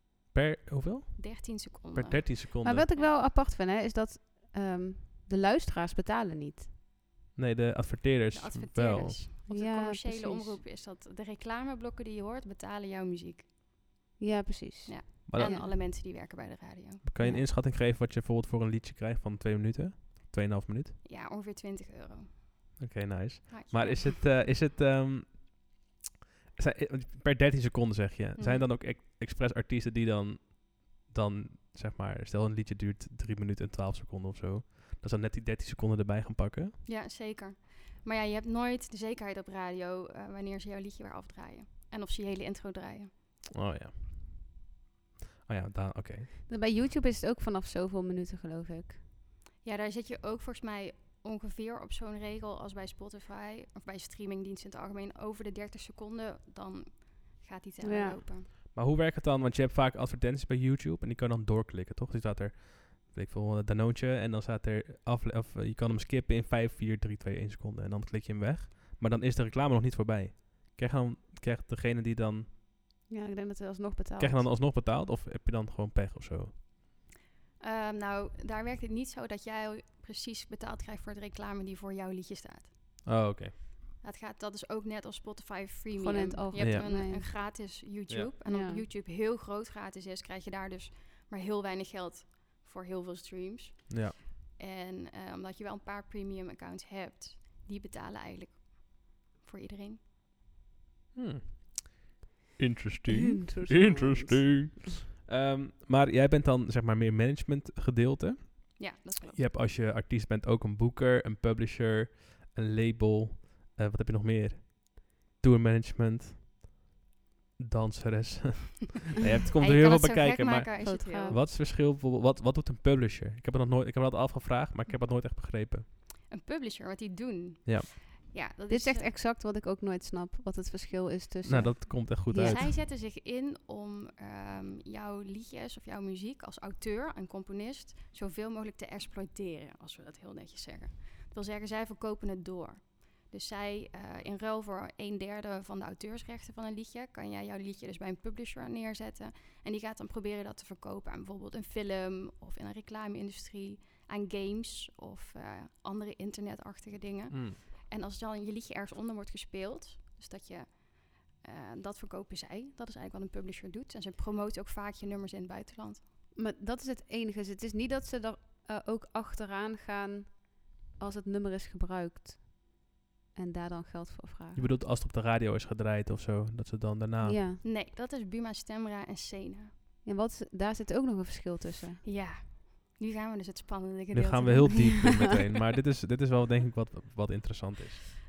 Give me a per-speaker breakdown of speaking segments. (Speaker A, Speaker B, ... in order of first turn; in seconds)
Speaker A: 0.3-2.9, 7.3-9.2, 15.3-15.6, 17.0-20.9, 22.8-25.6, 26.6-36.8, 43.5-44.1, 45.5-46.3, 58.5-72.5, 74.2-76.5, 83.0-83.5, 86.6-86.8, 93.9-94.2, 101.1-116.6, 117.6-125.8, 127.6-127.9, 131.4-132.7, 157.3-157.6, 174.5-177.4, 184.1-188.1
Speaker B: 1.1-3.1, 8.3-13.5, 14.8-17.0, 21.0-22.4, 23.5-24.2, 28.4-28.7, 36.8-43.1, 49.6-58.5, 77.6-83.0, 84.0-100.0, 108.8-109.4, 119.6-121.4, 126.3-129.1, 132.4-166.0, 177.6-179.7, 182.0-185.3
Speaker C: 2.6-6.7, 9.5-10.6, 14.2-15.7, 17.2-17.5, 46.5-49.0, 57.8-58.2, 73.1-74.5, 86.0-87.3, 88.5-88.8, 103.1-104.7, 120.8-121.4, 128.7-132.7, 166.3-172.7, 173.3-174.7, 177.2-177.6, 180.0-182.0